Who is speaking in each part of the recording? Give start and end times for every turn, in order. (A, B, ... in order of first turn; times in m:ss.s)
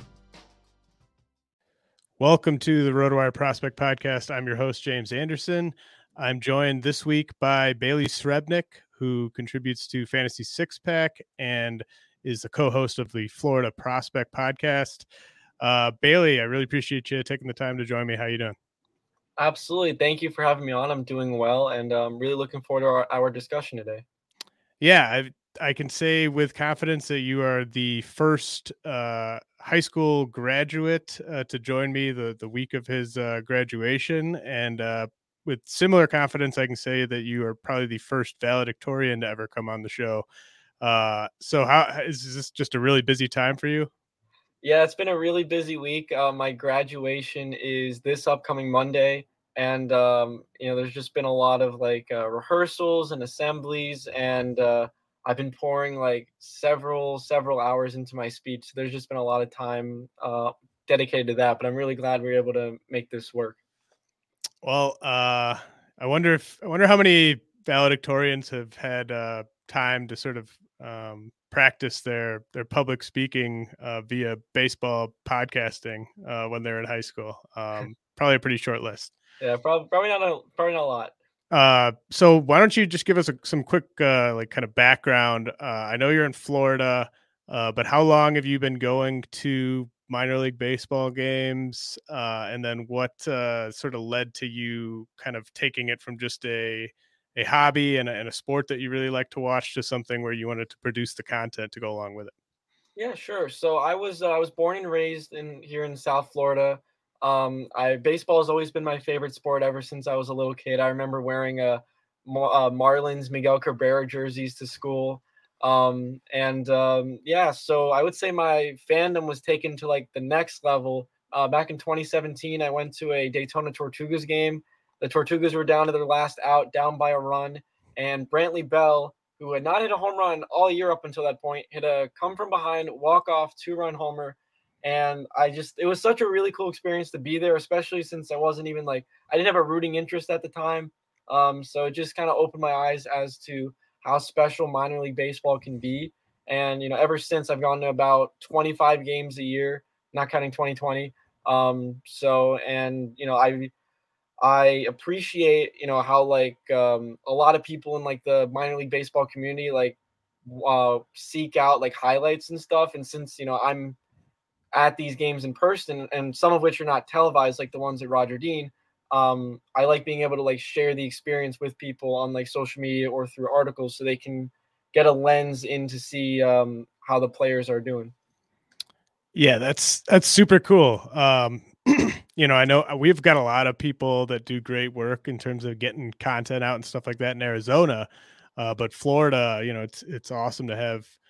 0:02.2-0:15.0 A
0:15.6-0:18.6 A
0:19.4-0:24.0 B
0:24.8-0:40.2 A
0:40.8-0:43.9 A
0:44.6-1:03.6 B
1:04.6-1:19.1 A
1:19.4-1:21.1 B
1:21.5-1:42.3 A
1:43.0-2:33.7 B
2:34.4-2:44.0 B
2:44.7-2:58.1 B
2:59.3-3:11.1 A